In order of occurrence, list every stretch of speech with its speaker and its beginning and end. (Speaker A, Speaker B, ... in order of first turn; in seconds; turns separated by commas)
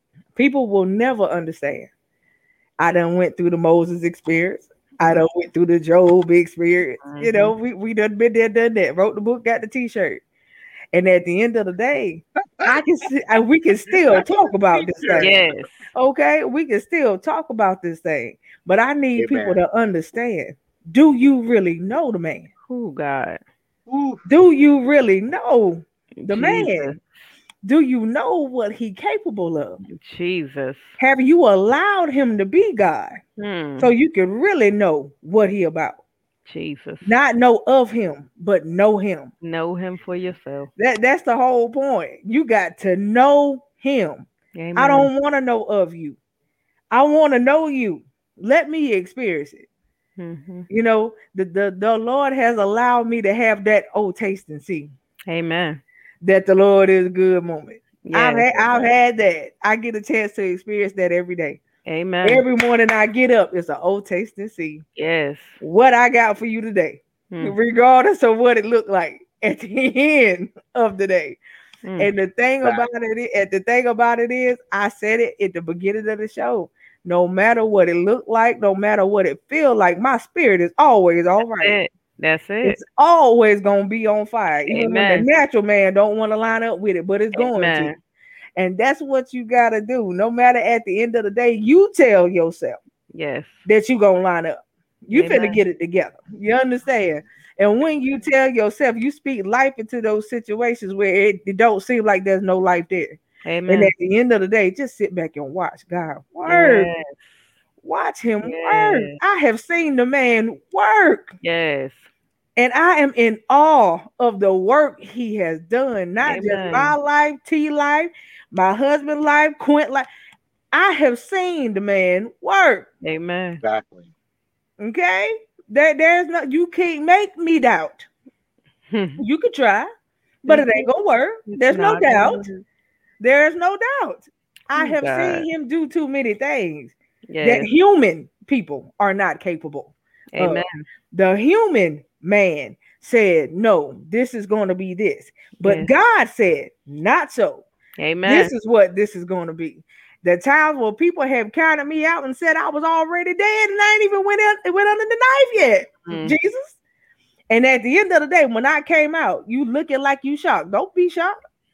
Speaker A: 0.3-1.9, Speaker A: 2.8-10.2, Speaker B: 7.0-7.5, Speaker A: 10.9-15.3, Speaker C: 13.9-15.6, Speaker B: 15.2-15.8, Speaker A: 15.9-22.5, Speaker C: 19.2-19.6, Speaker B: 22.7-23.4, Speaker C: 23.9-24.2, Speaker A: 24.3-27.0, Speaker B: 26.2-27.0, Speaker A: 27.6-29.8, Speaker B: 29.9-31.0, Speaker A: 31.0-33.2, Speaker B: 33.4-33.9, Speaker A: 33.8-36.0, Speaker B: 36.5-37.1, Speaker A: 37.0-39.3, Speaker B: 39.4-40.7, Speaker A: 40.8-46.2, Speaker B: 44.5-45.1, Speaker A: 46.9-49.7, Speaker B: 50.2-50.7, Speaker A: 50.7-54.9, Speaker B: 55.3-55.8, Speaker A: 56.2-61.6, Speaker B: 58.0-58.9, Speaker B: 61.9-62.4, Speaker A: 62.2-64.8, Speaker B: 65.0-65.6, Speaker A: 65.6-71.4, Speaker B: 67.3-67.6, Speaker B: 71.8-72.1, Speaker A: 72.0-81.8, Speaker C: 72.6-72.9, Speaker B: 81.6-82.8, Speaker A: 82.6-87.9, Speaker B: 84.7-85.3, Speaker B: 87.3-88.0, Speaker A: 88.6-92.8, Speaker B: 93.1-93.6, Speaker A: 93.7-106.9, Speaker B: 95.1-95.6, Speaker B: 103.5-103.9, Speaker B: 106.5-107.4, Speaker A: 107.8-111.3, Speaker B: 108.4-109.2, Speaker B: 111.4-112.1, Speaker A: 112.6-120.1, Speaker B: 116.2-117.0, Speaker A: 120.7-122.9, Speaker B: 123.0-123.6, Speaker C: 123.6-124.1, Speaker A: 124.8-128.1, Speaker B: 128.9-129.2, Speaker A: 129.2-129.9, Speaker A: 130.4-132.4, Speaker B: 130.4-130.9, Speaker B: 131.5-132.6, Speaker A: 133.2-147.7, Speaker B: 134.8-135.5, Speaker B: 137.3-137.7, Speaker B: 140.3-140.7, Speaker B: 145.6-145.9, Speaker B: 148.0-148.5, Speaker A: 148.2-156.8, Speaker B: 156.1-156.4, Speaker A: 157.5-161.4